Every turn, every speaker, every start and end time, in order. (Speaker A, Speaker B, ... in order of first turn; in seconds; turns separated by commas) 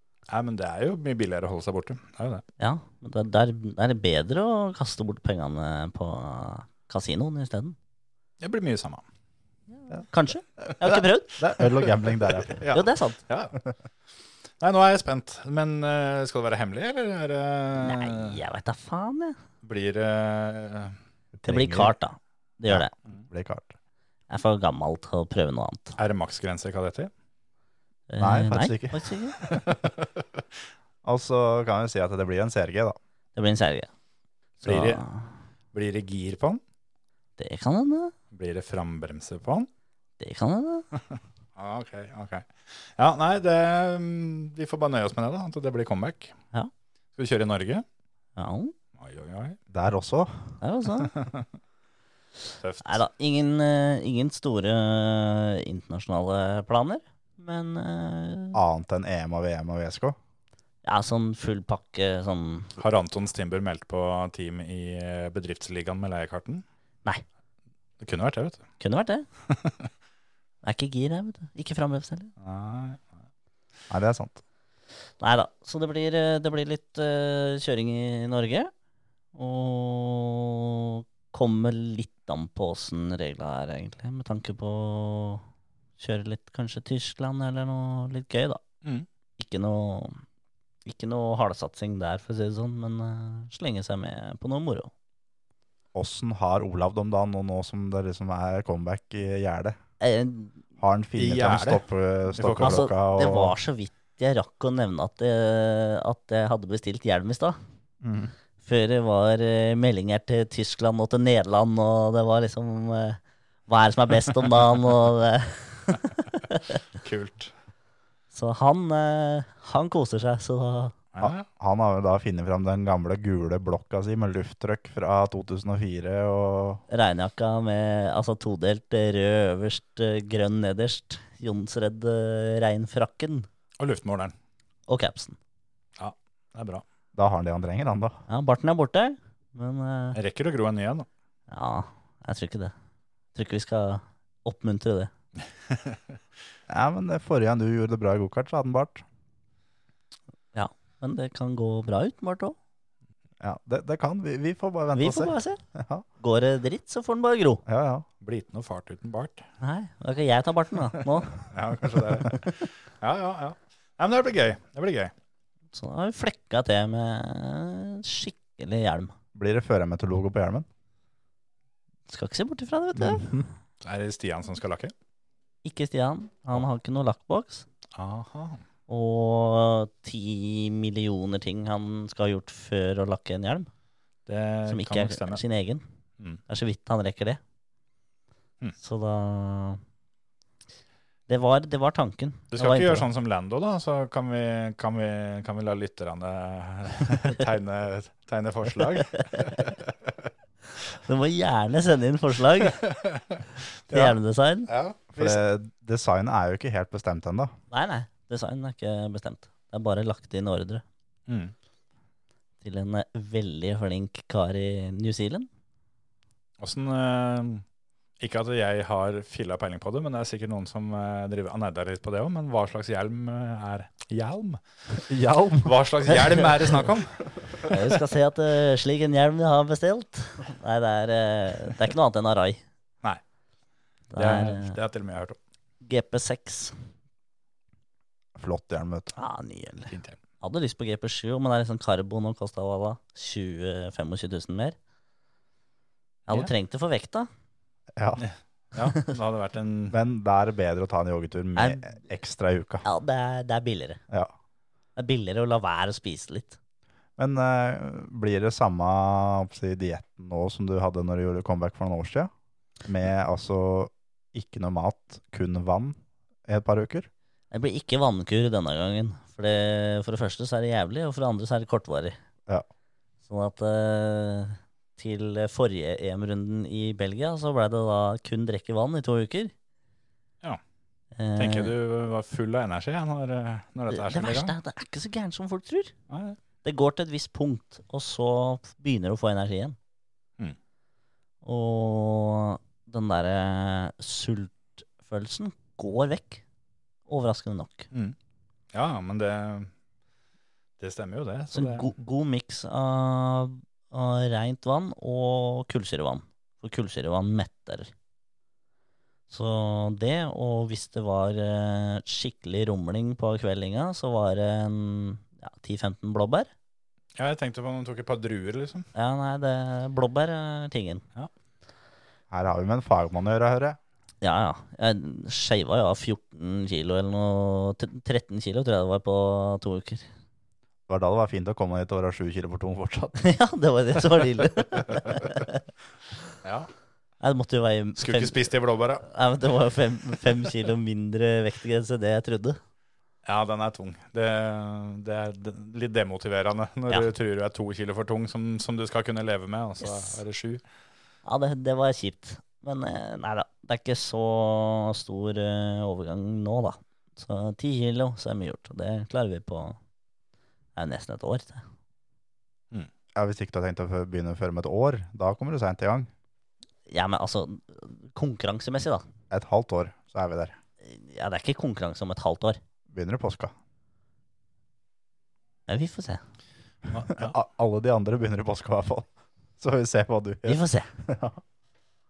Speaker A: 0.3-2.4, Speaker B: 2.6-7.8, Speaker A: 8.4-9.0, Speaker B: 9.9-11.4, Speaker C: 10.9-12.6, Speaker A: 12.4-13.5, Speaker B: 12.7-13.2, Speaker A: 14.6-18.4, Speaker B: 17.8-19.4, Speaker A: 19.6-20.9, Speaker C: 21.3-21.9, Speaker B: 21.5-22.9, Speaker C: 22.7-23.7, Speaker B: 24.3-26.0, Speaker A: 26.0-27.1, Speaker B: 28.1-29.4, Speaker C: 28.2-29.6, Speaker C: 31.0-33.0, Speaker B: 33.4-33.9, Speaker B: 34.6-35.3, Speaker A: 34.6-35.0, Speaker A: 35.7-36.6, Speaker B: 37.4-38.1, Speaker A: 38.3-39.7, Speaker B: 40.2-40.9, Speaker A: 41.5-46.4, Speaker A: 47.2-47.8, Speaker B: 48.4-48.7, Speaker A: 49.0-49.6, Speaker C: 49.7-50.5, Speaker B: 50.6-51.1, Speaker A: 51.1-51.4, Speaker A: 52.6-53.0, Speaker B: 52.8-58.6, Speaker C: 58.5-60.2, Speaker B: 60.8-62.8, Speaker A: 62.8-66.6, Speaker A: 68.0-68.6, Speaker B: 68.8-69.3, Speaker A: 69.5-69.9, Speaker B: 70.6-72.3, Speaker A: 72.4-73.1, Speaker C: 73.9-74.4, Speaker B: 75.2-78.7, Speaker B: 79.3-85.4, Speaker B: 86.0-88.6, Speaker B: 89.4-90.2, Speaker B: 90.8-94.9, Speaker C: 95.9-99.8, Speaker B: 100.0-100.6, Speaker C: 100.8-103.5, Speaker A: 101.2-102.9, Speaker B: 102.6-107.6, Speaker C: 108.0-108.3, Speaker B: 108.6-116.8, Speaker A: 117.0-117.5, Speaker B: 118.3-121.0, Speaker A: 121.1-121.5, Speaker C: 121.2-126.8, Speaker B: 126.9-133.5, Speaker A: 133.8-134.3, Speaker B: 134.9-135.4, Speaker A: 136.0-136.8, Speaker C: 137.1-138.2, Speaker B: 138.3-140.2, Speaker A: 140.1-141.1, Speaker B: 141.5-142.7, Speaker B: 143.3-145.1, Speaker A: 145.7-146.0, Speaker C: 146.7-149.0, Speaker B: 150.5-152.6, Speaker C: 153.4-156.0, Speaker B: 154.9-155.6, Speaker B: 156.2-157.6, Speaker C: 157.7-158.1, Speaker A: 158.2-159.4, Speaker B: 159.6-161.4, Speaker A: 161.3-165.1, Speaker B: 165.7-169.1, Speaker C: 169.3-170.7, Speaker B: 172.1-173.3, Speaker C: 172.9-173.5, Speaker A: 173.8-174.9, Speaker B: 175.6-177.7, Speaker A: 177.9-178.6, Speaker B: 178.9-183.7, Speaker A: 184.3-185.4, Speaker B: 184.7-185.8, Speaker B: 186.5-187.4, Speaker B: 188.8-189.8, Speaker B: 191.3-193.1, Speaker A: 192.5-199.9, Speaker B: 199.1-199.7, Speaker B: 200.9-202.8, Speaker A: 202.8-204.2, Speaker B: 203.9-204.7, Speaker A: 204.7-205.4, Speaker C: 205.1-207.5, Speaker B: 207.7-210.8, Speaker A: 211.3-211.5, Speaker B: 212.6-215.5, Speaker A: 216.6-217.6, Speaker A: 218.2-224.6, Speaker C: 225.1-225.7, Speaker A: 225.6-227.8, Speaker B: 227.6-232.6, Speaker B: 234.1-234.8, Speaker A: 234.2-235.4, Speaker B: 235.8-236.7, Speaker C: 238.3-239.1, Speaker B: 239.2-244.8, Speaker A: 239.9-240.2, Speaker B: 246.3-247.3, Speaker C: 247.9-248.2, Speaker A: 248.2-249.9, Speaker C: 249.9-252.8, Speaker B: 251.6-252.0, Speaker B: 252.8-254.0, Speaker B: 254.9-256.6, Speaker C: 257.2-262.3, Speaker C: 262.8-267.1, Speaker B: 267.5-272.2, Speaker B: 273.2-279.5, Speaker B: 281.1-281.7, Speaker A: 281.4-284.5, Speaker B: 283.9-285.9, Speaker A: 286.1-286.4, Speaker B: 286.6-289.8, Speaker B: 291.4-296.4, Speaker B: 297.1-297.9, Speaker A: 298.7-299.7, Speaker A: 300.8-301.9, Speaker B: 301.5-307.9, Speaker B: 309.3-316.5, Speaker A: 317.2-318.9, Speaker B: 318.9-321.0, Speaker C: 322.3-323.8, Speaker B: 324.2-330.1, Speaker C: 330.9-333.1, Speaker B: 333.1-335.6, Speaker A: 336.4-336.7, Speaker B: 337.2-338.4, Speaker A: 338.0-339.0, Speaker B: 339.0-342.6, Speaker A: 343.2-350.6, Speaker B: 349.8-350.1, Speaker B: 351.2-359.8, Speaker B: 360.8-361.6, Speaker C: 363.1-366.1, Speaker B: 366.9-369.0, Speaker C: 369.3-370.6, Speaker B: 370.8-372.6, Speaker C: 372.9-373.5, Speaker B: 375.7-376.2, Speaker A: 376.9-377.3, Speaker C: 377.1-381.4, Speaker B: 380.4-380.9